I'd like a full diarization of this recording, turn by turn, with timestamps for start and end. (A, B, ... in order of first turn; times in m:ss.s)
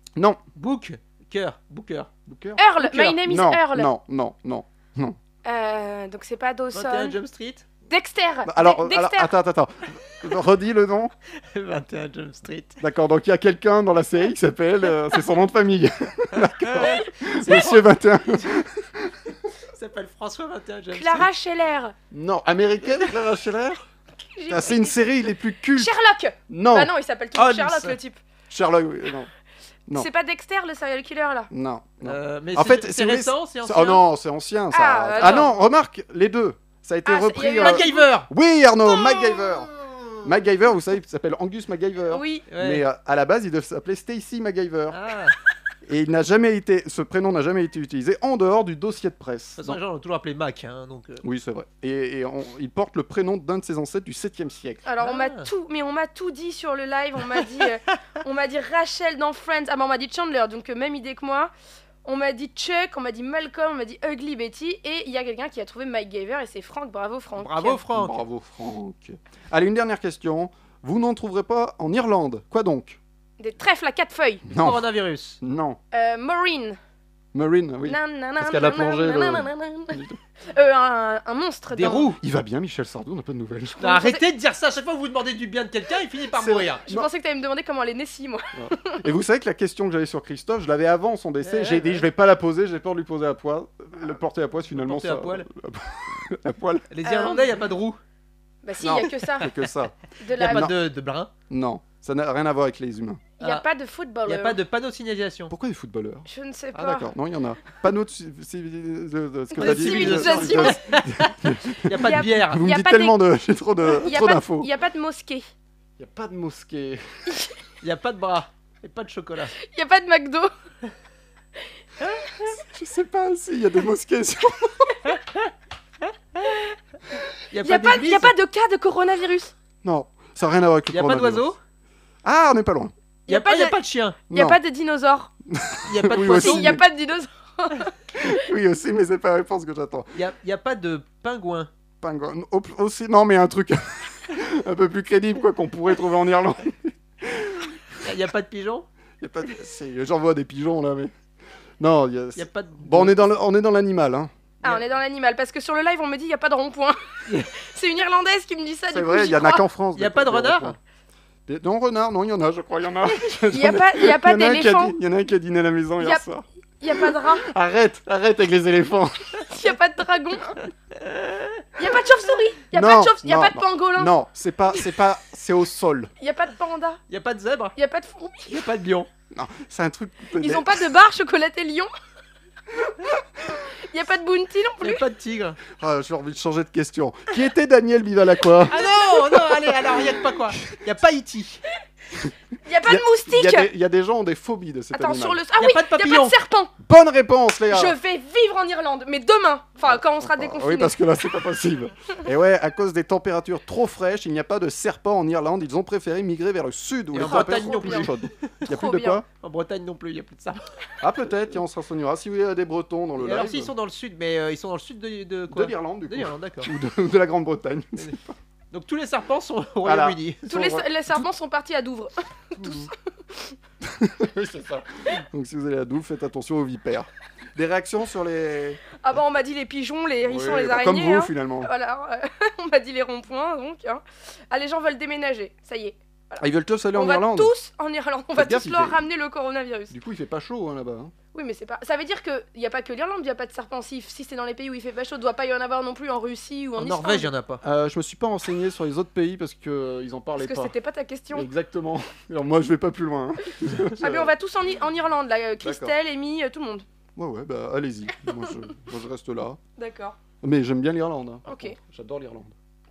0:00.6-0:02.1 A
0:02.3-0:05.2 B
0:02.6-0:03.9 C
0:05.4-0:07.2 C
0:06.7-0:07.7 A
0:07.9-0:09.3 C
0:08.5-0:11.1 B
0:11.5-0:12.8 A
0:12.8-0:19.1 B
0:16.6-0:18.0 A
0:19.7-0:21.3 A
0:20.9-0:21.9 C
0:22.1-0:23.8 B
0:24.4-0:25.1 C
0:24.5-0:25.9 B
0:25.8-0:28.2 C
0:26.5-0:26.9 B
0:27.4-0:28.0 A
0:28.5-0:29.3 B
0:30.0-0:31.5 C
0:31.5-0:45.0 B
0:32.0-0:34.0 A
0:34.7-0:35.6 C
0:35.2-0:35.6 A
0:37.0-0:38.1 C
0:37.6-0:38.3 A
0:39.0-0:39.4 C
0:42.1-0:42.5 C
0:42.5-0:42.8 A
0:44.9-0:45.4 A
0:45.9-0:49.8 B
0:49.6-0:51.2 A
0:51.2-0:54.8 B
0:54.8-1:01.5 C
0:55.0-0:55.5 A
1:02.0-1:07.8 C
1:07.4-1:08.2 A
1:07.9-1:13.0 B
1:13.4-1:14.5 C
1:14.5-1:14.9 B
1:14.6-1:15.4 A
1:15.4-1:15.8 B
1:15.9-1:16.8 C
1:17.3-1:20.2 B
1:17.8-1:22.2 C
1:21.7-1:22.2 A
1:22.2-1:23.9 B
1:23.8-1:24.2 C
1:23.8-1:26.9 A
1:26.4-1:27.1 B
1:26.9-1:29.0 C
1:28.6-1:36.9 B
1:31.4-1:32.1 A
1:34.7-1:35.5 A
1:36.9-1:38.0 A
1:37.0-1:37.5 C
1:38.6-1:39.5 C
1:38.8-1:40.7 B
1:40.2-1:40.7 C
1:40.4-1:41.3 A
1:41.5-1:43.3 B
1:43.4-1:44.6 C
1:43.4-1:43.7 A
1:44.3-1:45.5 A
1:45.5-1:54.7 B
1:46.3-1:47.1 C
1:49.5-1:50.8 C
1:49.6-1:52.6 A
1:51.9-1:53.2 C
1:53.9-1:55.5 C
1:56.0-1:57.0 B
1:57.8-1:59.6 A
1:59.6-2:00.5 C
2:02.6-2:05.0 B
2:07.5-2:08.3 A
2:07.6-2:09.5 C
2:09.8-2:11.5 B
2:10.9-2:11.6 A
2:12.2-2:12.9 B
2:13.3-2:13.8 C
2:13.3-2:14.2 A
2:14.3-2:15.3 C
2:14.3-2:14.6 B
2:15.5-2:16.8 B
2:15.9-2:16.8 A
2:16.3-2:17.9 C
2:18.2-2:20.1 B
2:20.2-2:21.7 A
2:22.0-2:27.7 B
2:28.0-2:28.9 A
2:29.2-2:31.1 B
2:31.8-2:34.3 B
2:32.4-2:33.2 A
2:34.6-2:37.0 C
2:37.6-2:39.6 C
2:38.9-2:40.8 B
2:40.0-2:40.8 A
2:41.5-2:46.4 B
2:43.4-2:45.0 C
2:46.8-2:47.5 C
2:47.2-2:49.3 B
2:49.5-2:50.5 C
2:51.1-2:51.4 A
2:51.8-2:54.1 C
2:52.7-2:56.1 B
2:56.2-2:57.0 C
2:57.1-2:57.8 A
2:57.8-2:58.5 C
2:58.5-2:59.1 A
2:59.3-3:01.0 B
3:00.4-3:01.9 C
3:03.9-3:05.0 C
3:04.8-3:05.6 A
3:05.8-3:08.8 B
3:08.7-3:11.6 A
3:09.5-3:10.1 B
3:12.7-3:13.7 C
3:12.8-3:15.4 B
3:14.9-3:16.7 C
3:15.6-3:16.4 A
3:16.8-3:18.0 B
3:17.7-3:20.9 C
3:19.9-3:29.2 B
3:27.1-3:28.5 A
3:27.2-3:29.2 C
3:29.4-3:30.6 A
3:31.0-3:33.7 B
3:33.2-3:36.7 A
3:35.5-3:38.4 B
3:38.7-3:40.5 A
3:39.8-3:40.8 B
3:40.5-3:43.6 C
3:42.6-3:42.9 B
3:43.8-3:48.8 B
3:48.9-3:59.9 C
3:50.2-3:51.7 B
3:56.4-3:57.5 B
3:58.3-3:59.0 B
3:59.9-4:01.1 B
4:01.3-4:07.3 C
4:06.8-4:07.6 A
4:07.6-4:10.8 B
4:10.4-4:11.5 C
4:11.3-4:14.3 B
4:14.0-4:16.8 C
4:15.6-4:16.0 B
4:17.2-4:19.6 B
4:19.8-4:20.2 C
4:20.4-4:22.6 B
4:21.5-4:21.8 C